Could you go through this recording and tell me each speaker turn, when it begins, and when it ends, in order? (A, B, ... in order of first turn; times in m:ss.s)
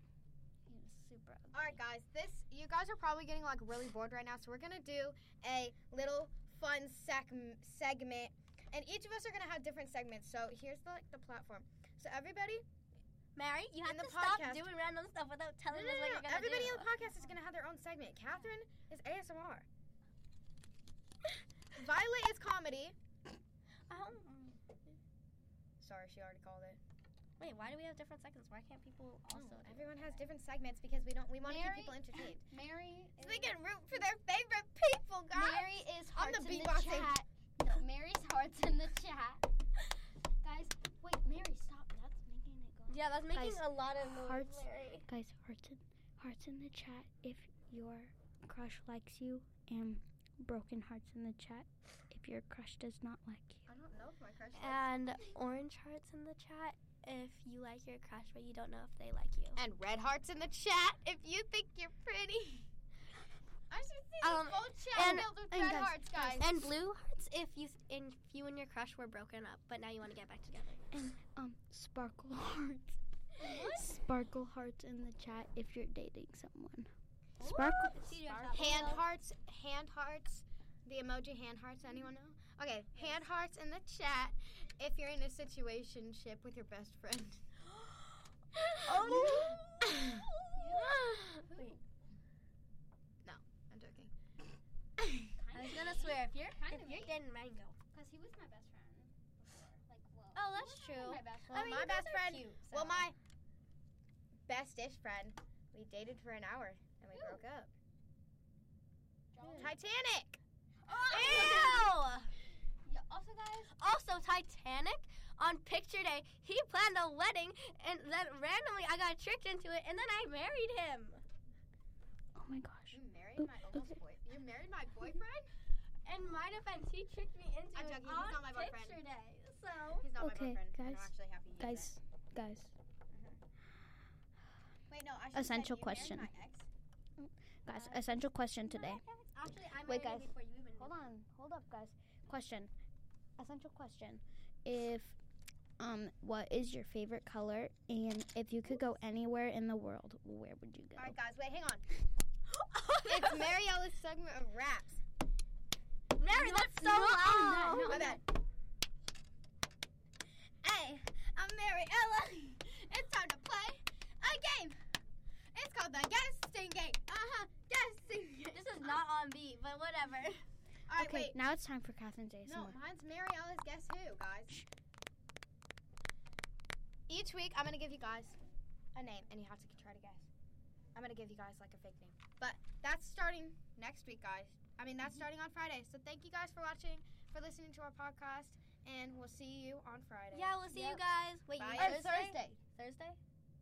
0:00.6-0:01.8 A
0:01.5-0:12.6 B
0:13.4-0:16.9 C
0:13.8-0:14.7 B
0:15.7-0:19.6 B
0:17.0-0:17.3 A
0:21.7-0:22.9 B
0:23.9-0:24.4 C
0:24.3-0:24.6 A
0:25.8-0:26.8 B
0:27.4-0:29.9 C
0:29.3-0:32.5 B
0:31.4-0:33.6 A
0:33.2-0:37.2 B
0:35.3-0:39.4 A
0:40.4-0:53.7 A
0:42.9-0:45.1 C
0:53.7-0:55.0 B
0:54.5-0:59.6 C
0:59.6-1:02.7 B
1:03.7-1:06.5 B
1:04.2-1:05.3 C
1:05.0-1:06.5 A
1:06.3-1:11.1 C
1:10.9-1:16.9 A
1:13.4-1:13.9 C
1:17.4-1:19.1 C
1:17.4-1:19.0 A
1:18.5-1:27.4 B
1:28.8-1:31.4 C
1:28.9-1:29.6 B
1:29.0-1:29.5 A
1:30.5-1:31.8 A
1:33.2-1:34.1 B
1:35.4-1:37.2 A
1:35.5-1:37.7 C
1:37.9-1:41.7 A
1:40.3-1:43.1 C
1:41.5-1:43.2 B
1:44.5-1:47.7 B
1:47.1-1:47.4 A
1:49.3-1:49.8 A
1:49.4-1:49.7 C
1:49.6-1:50.4 B
1:50.8-1:51.9 A
1:50.9-1:52.3 C
1:51.2-1:51.5 B
1:52.8-1:53.8 A
1:53.7-2:01.2 C
2:02.3-2:03.4 A
2:02.9-2:05.5 B
2:06.0-2:10.1 C
2:07.7-2:09.0 B
2:10.0-2:11.9 B
2:10.2-2:12.7 A
2:13.1-2:13.4 B
2:14.9-2:16.7 B
2:15.3-2:16.3 A
2:17.2-2:19.0 A
2:17.7-2:21.1 C
2:19.8-2:22.7 A
2:23.4-2:25.2 A
2:25.8-2:31.1 A
2:30.9-2:31.8 B
2:32.5-2:33.5 C
2:33.1-2:35.0 B
2:36.2-2:38.2 C
2:36.2-2:38.2 A
2:37.8-2:38.2 B
2:40.6-2:44.8 B
2:45.5-2:49.0 B
2:48.5-2:50.4 C
2:50.9-2:51.4 B
2:50.9-2:52.8 A
2:52.4-2:54.6 B
2:57.1-2:58.4 B
2:58.9-3:00.3 B
3:00.9-3:10.6 B
3:10.3-3:13.2 C
3:10.6-3:11.0 A
3:11.6-3:12.4 B
3:11.7-3:12.6 A